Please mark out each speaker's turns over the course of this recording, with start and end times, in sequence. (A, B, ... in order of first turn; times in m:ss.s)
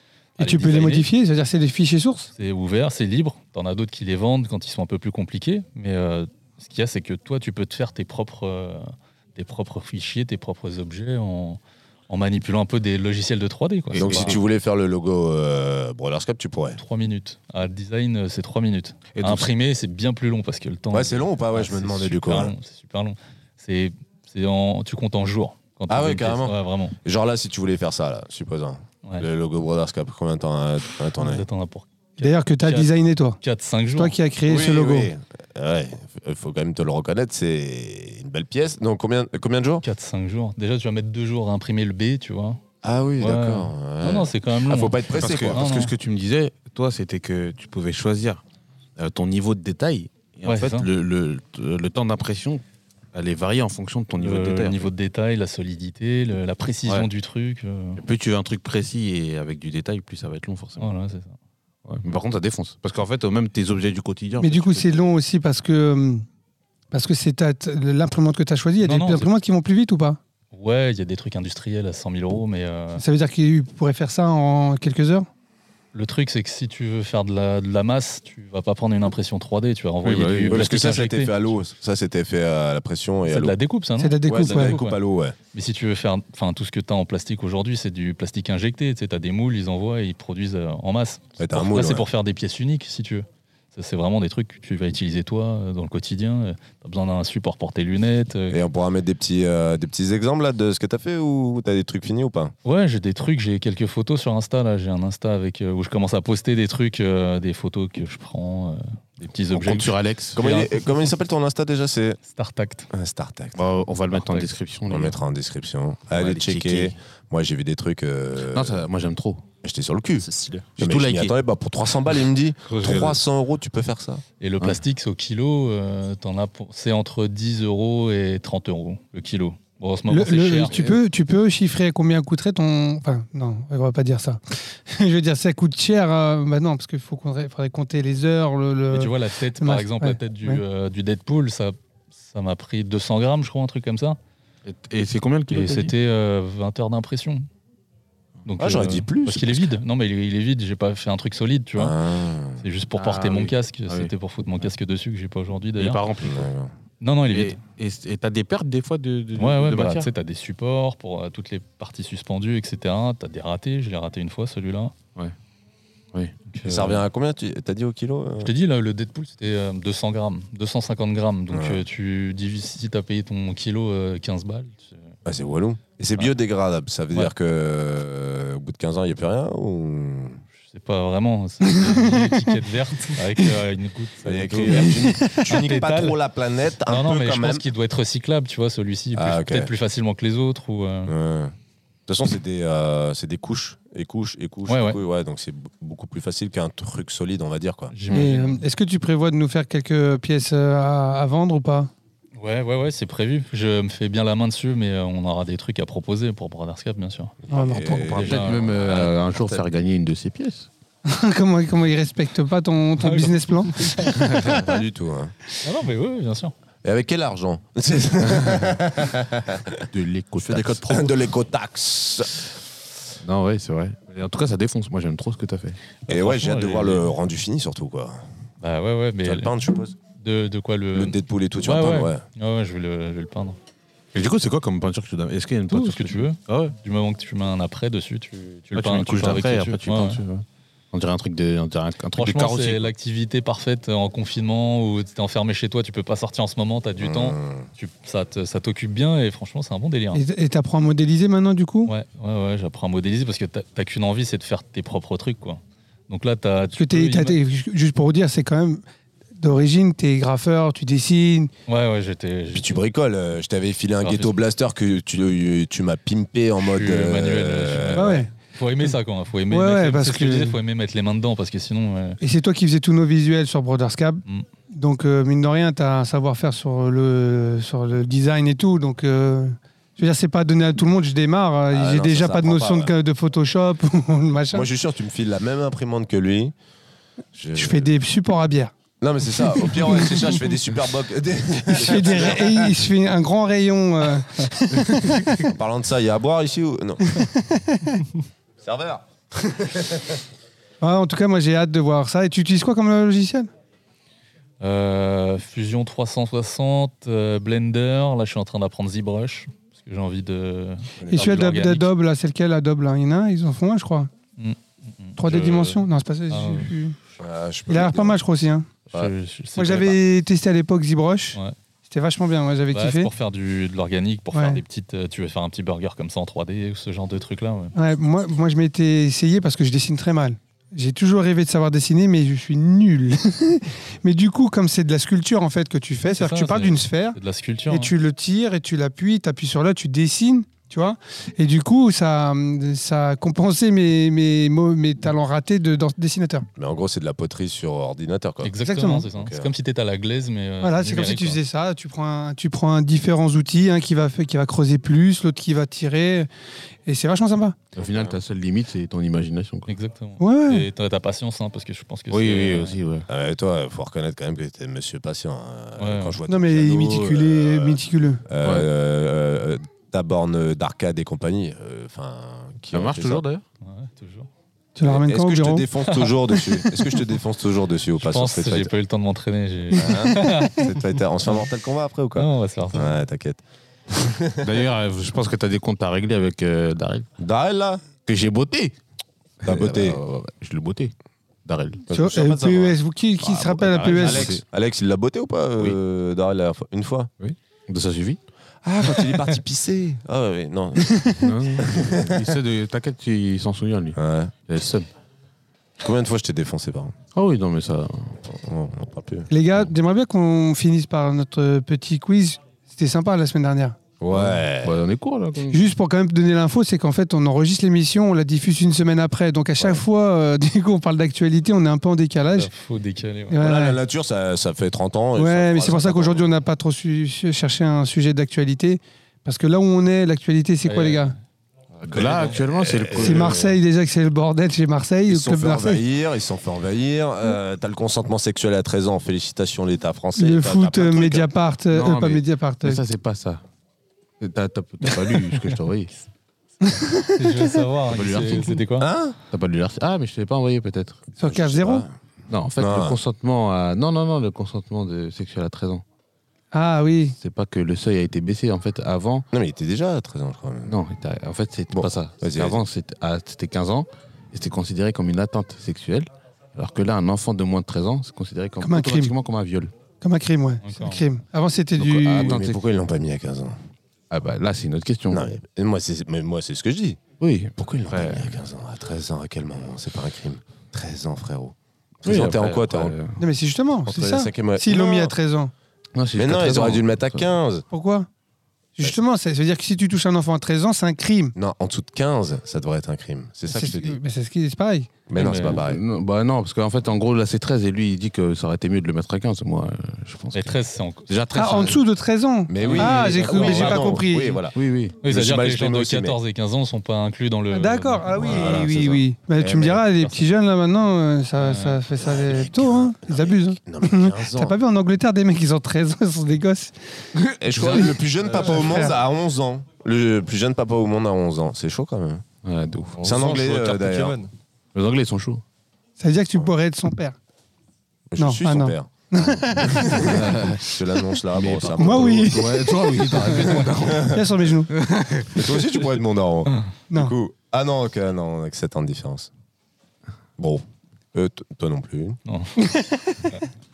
0:00.4-0:01.1 A
0:00.4-0:02.3 B
0:02.4-0:14.4 A
0:13.9-0:14.4 C
0:14.0-0:16.8 D
0:16.8-0:27.0 A
0:19.1-0:19.5 C
0:20.9-0:22.5 D
0:25.9-0:31.5 D
0:31.2-0:34.2 A
0:32.2-0:33.4 B
0:34.0-0:35.1 B
0:34.5-0:39.8 D
0:39.8-0:42.6 A
0:42.8-0:45.9 D
0:43.2-0:45.9 A
0:45.1-0:48.4 C
0:49.0-0:52.6 C
0:50.5-0:50.9 A
0:53.1-0:54.9 C
0:54.2-0:58.0 A
0:58.0-1:00.9 C
1:00.8-1:01.3 A
1:01.9-1:05.0 C
1:04.4-1:06.2 B
1:06.9-1:10.2 B
1:08.8-1:09.3 A
1:10.5-1:13.0 A
1:13.0-1:15.3 B
1:15.9-1:21.4 A
1:20.0-1:20.8 C
1:20.5-1:23.6 D
1:23.3-1:25.0 A
1:24.0-1:24.8 B
1:24.2-1:25.4 D
1:25.5-1:38.6 A
1:31.4-1:32.1 D
1:38.5-1:42.5 D
1:42.6-1:50.6 A
1:49.5-1:50.7 C
1:50.4-1:52.2 D
1:52.3-1:52.9 A
1:52.9-1:53.6 D
1:53.6-1:55.2 C
1:54.1-1:54.5 A
1:54.9-1:58.8 D
1:56.1-1:57.0 C
1:58.5-1:59.4 C
1:59.6-2:00.3 D
2:00.2-2:00.7 E
2:00.8-2:01.4 C
2:00.8-2:04.2 D
2:02.7-2:03.2 C
2:04.4-2:10.8 A
2:10.1-2:20.6 B
2:18.9-2:24.2 A
2:24.7-2:25.9 C
2:25.5-2:27.5 A
2:28.5-2:32.0 A
2:28.6-2:29.7 D
2:31.8-2:32.6 D
2:32.6-2:36.0 A
2:33.0-2:34.1 C
2:35.8-2:36.5 C
2:36.2-2:36.7 D
2:37.0-2:37.6 A
2:37.3-2:40.1 C
2:39.4-2:44.9 A
2:46.5-2:47.0 A
2:46.6-2:48.5 D
2:48.4-2:55.2 A
2:51.5-2:51.8 D
2:55.2-3:00.4 D
3:00.7-3:06.2 A
3:04.2-3:07.6 D
3:04.9-3:05.4 B
3:06.9-3:11.1 A
3:09.2-3:09.7 D
3:11.1-3:11.5 D
3:12.1-3:17.9 D
3:14.7-3:15.0 A
3:17.9-3:18.7 A
3:18.1-3:21.9 B
3:22.4-3:27.4 A
3:27.4-3:29.6 D
3:27.5-3:28.2 B
3:27.8-3:30.7 C
3:28.1-3:29.1 A
3:31.1-3:34.1 B
3:33.0-3:34.3 A
3:34.3-3:35.3 D
3:35.6-3:36.5 A
3:36.8-3:39.8 D
3:39.9-3:41.1 C
3:40.5-3:41.0 E
3:40.8-3:42.5 D
3:43.2-3:45.8 C
3:46.1-3:47.1 A
3:46.1-3:48.2 D
3:48.6-3:49.5 A
3:49.2-3:50.0 D
3:50.2-3:53.6 A
3:50.9-3:52.2 D
3:54.1-3:56.7 C
3:55.7-4:00.2 A
3:58.7-4:02.9 C
4:02.2-4:10.2 A
4:07.0-4:07.7 D
4:10.1-4:11.9 B
4:11.9-4:17.4 A
4:16.8-4:18.8 B
4:19.4-4:21.5 B
4:21.7-4:22.8 A
4:22.5-4:28.2 D
4:24.0-4:24.3 A
4:26.6-4:32.2 A
4:28.0-4:28.3 B
4:29.5-4:30.6 B
4:32.2-4:44.7 B
4:41.7-4:42.9 D
4:44.5-4:46.5 D
4:47.4-4:47.9 D
4:47.6-4:48.7 B
4:49.0-4:52.8 D
4:49.6-4:50.3 B
4:51.7-4:55.4 B
4:55.5-4:57.2 D
4:57.1-4:58.0 B
4:58.6-5:00.2 D
5:00.8-5:03.5 B
5:04.6-5:11.9 A
5:11.0-5:11.3 D
5:11.1-5:14.1 B
5:14.4-5:16.7 A
5:15.2-5:17.0 B
5:17.2-5:18.2 D
5:17.7-5:18.7 B
5:18.9-5:20.0 A
5:19.6-5:23.1 B
5:22.7-5:27.7 A
5:24.3-5:24.6 B
5:27.8-5:37.2 B
5:36.2-5:37.9 A
5:37.7-5:46.5 B
5:46.6-5:48.5 D
5:48.4-5:51.4 A
5:48.6-5:49.0 B
5:49.1-5:49.5 D
5:50.6-5:56.3 B
5:56.9-5:57.6 B
5:57.8-5:59.7 C
5:57.8-5:58.2 D
5:59.7-6:02.8 A
6:00.2-6:00.7 B
6:02.1-6:03.1 C
6:03.1-6:13.2 D
6:05.8-6:06.2 A
6:06.3-6:08.2 B
6:08.4-6:08.7 C
6:12.7-6:13.4 C
6:13.6-6:14.3 A
6:14.8-6:15.7 B
6:14.8-6:18.7 D
6:15.9-6:16.2 A
6:18.0-6:20.7 A
6:19.8-6:23.4 D
6:22.2-6:23.0 A
6:24.0-6:24.4 D
6:24.4-6:27.1 C
6:27.2-6:27.8 D
6:28.1-6:28.8 C
6:29.4-6:30.9 C
6:29.4-6:30.0 D
6:31.4-6:31.8 C
6:31.9-6:37.1 D
6:31.9-6:34.3 B
6:33.7-6:34.4 C
6:37.2-6:38.2 C
6:38.6-6:42.3 D
6:41.2-6:44.9 C
6:44.0-6:44.3 D
6:45.8-6:46.9 D
6:47.1-6:48.2 C
6:48.3-6:49.3 D
6:49.3-6:53.8 B
6:54.0-6:54.8 D
6:54.1-6:55.6 C
6:55.5-7:02.5 B
7:02.3-7:03.4 A
7:03.3-7:03.8 B
7:03.4-7:06.3 D
7:05.2-7:11.2 B
7:10.6-7:11.2 A
7:11.8-7:12.4 E
7:11.9-7:13.6 C
7:12.0-7:13.3 D
7:12.9-7:15.8 B
7:15.1-7:21.3 D
7:20.2-7:22.8 B
7:21.7-7:23.4 C
7:24.2-7:25.9 C
7:26.6-7:27.1 B
7:27.0-7:28.9 A
7:27.9-7:28.6 C
7:28.8-7:29.2 D
7:29.3-7:31.0 C
7:31.2-7:31.9 B
7:31.2-7:31.9 D
7:32.3-7:35.8 C
7:32.6-7:33.0 D
7:36.5-7:37.2 B
7:37.2-7:39.3 C
7:39.3-7:40.8 D
7:40.7-7:49.7 C
7:41.7-7:42.6 D
7:48.6-7:49.1 B
7:50.0-7:52.3 B
7:50.6-7:51.0 A
7:51.8-7:53.6 D
7:52.0-7:52.6 C
7:54.1-7:55.3 C
7:55.1-7:57.0 D
7:57.2-7:58.3 C
7:57.6-8:03.0 D
8:02.0-8:03.2 C
8:03.2-8:05.5 B
8:03.9-8:05.1 D
8:06.0-8:07.2 C
8:06.2-8:07.6 D
8:07.7-8:08.1 B
8:08.8-8:11.4 B
8:11.4-8:14.0 D
8:13.5-8:14.9 B
8:15.1-8:15.8 D
8:15.2-8:15.6 A
8:15.5-8:20.6 C
8:20.3-8:21.1 A
8:21.1-8:21.8 C
8:21.4-8:24.4 B
8:22.5-8:26.2 D
8:22.6-8:23.9 C
8:24.5-8:25.0 C
8:25.0-8:28.6 A
8:27.5-8:36.7 B
8:28.2-8:29.8 D
8:31.4-8:31.8 A
8:32.0-8:34.6 D
8:37.4-8:42.2 D
8:37.5-8:37.9 C
8:37.7-8:39.0 B
8:38.3-8:38.7 E
8:42.4-8:43.0 C
8:43.0-8:44.3 E
8:43.0-8:44.2 D
8:44.7-8:45.4 C
8:46.0-8:47.2 B
8:48.1-8:48.9 D
8:48.2-8:50.1 B
8:49.5-8:52.4 D
8:49.9-8:50.7 C
8:51.3-8:55.6 C
8:51.8-8:53.1 B
8:53.5-8:54.1 D
8:53.9-8:54.7 B
8:55.3-8:59.3 D
9:00.4-9:00.6 D
9:01.1-9:02.2 D
9:02.3-9:02.5 A
9:02.6-9:03.2 B